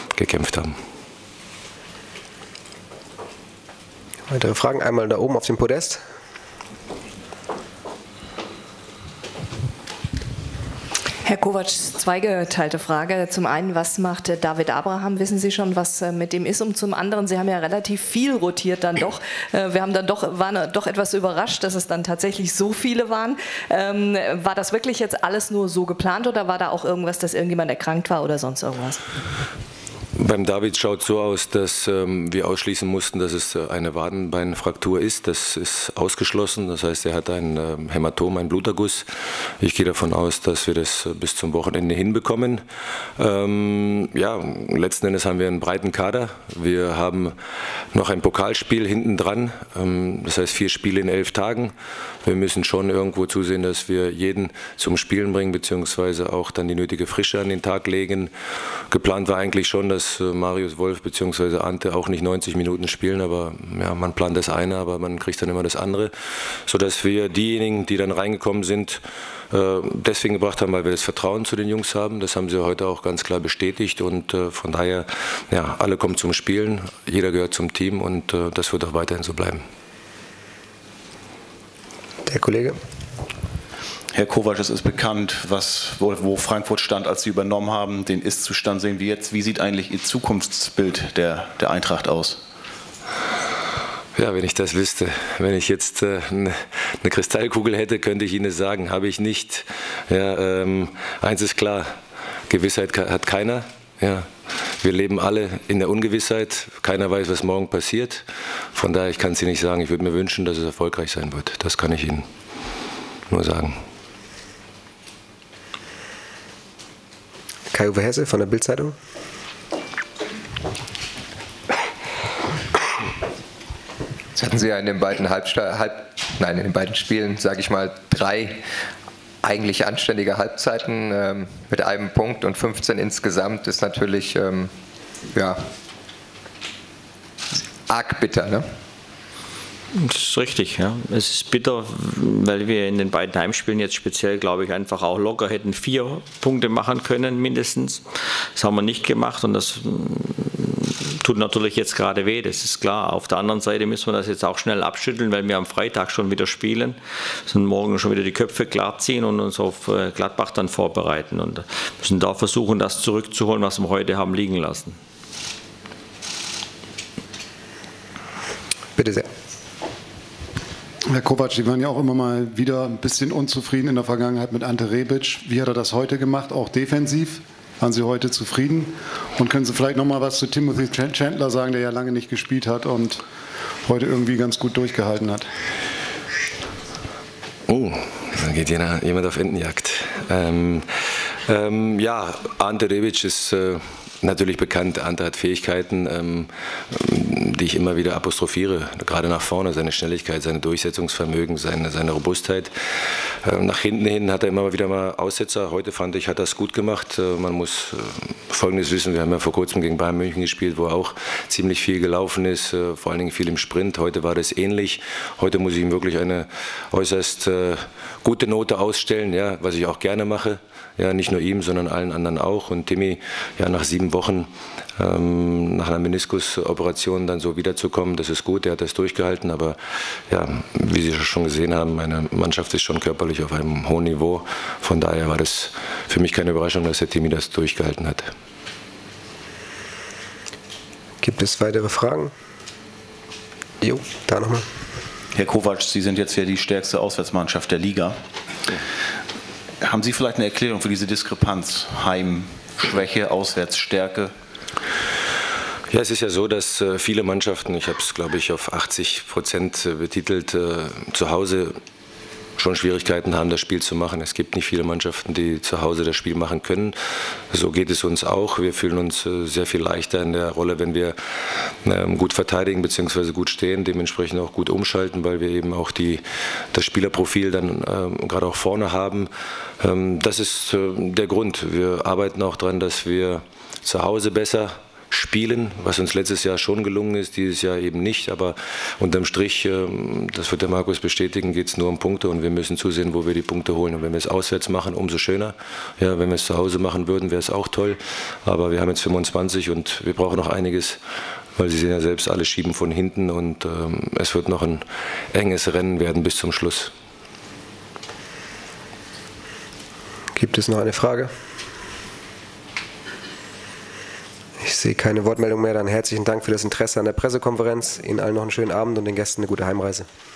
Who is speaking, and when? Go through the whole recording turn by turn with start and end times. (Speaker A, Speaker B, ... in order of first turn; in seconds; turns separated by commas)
Speaker A: 0.1-0.7, Speaker B: 4.3-6.0, Speaker C: 11.2-29.0, Speaker A: 30.2-39.0, Speaker A: 39.6-42.6, Speaker A: 43.2-47.3, Speaker A: 47.9-51.7, Speaker A: 52.2-58.3, Speaker A: 58.9-66.1, Speaker A: 66.7-79.6, Speaker B: 82.2-82.8, Speaker D: 84.1-92.4, Speaker A: 94.2-101.9, Speaker A: 102.5-104.3, Speaker A: 104.8-112.2, Speaker A: 113.3-113.8, Speaker B: 117.7-118.9, Speaker E: 124.3-128.6, Speaker E: 129.4-135.7, Speaker E: 137.8-138.7, Speaker F: 139.9-148.0, Speaker F: 148.6-164.9, Speaker B: 169.0-169.3, Speaker G: 171.1-183.2, Speaker G: 183.9-185.4, Speaker A: 187.7-190.9, Speaker A: 191.4-238.3, Speaker B: 241.2-242.3, Speaker B: 243.8-244.6, Speaker D: 245.3-248.1, Speaker D: 249.8-254.3, Speaker A: 255.9-261.7, Speaker A: 262.6-266.9, Speaker A: 267.5-301.0, Speaker A: 301.6-306.9, Speaker B: 310.4-311.3, Speaker B: 314.6-320.1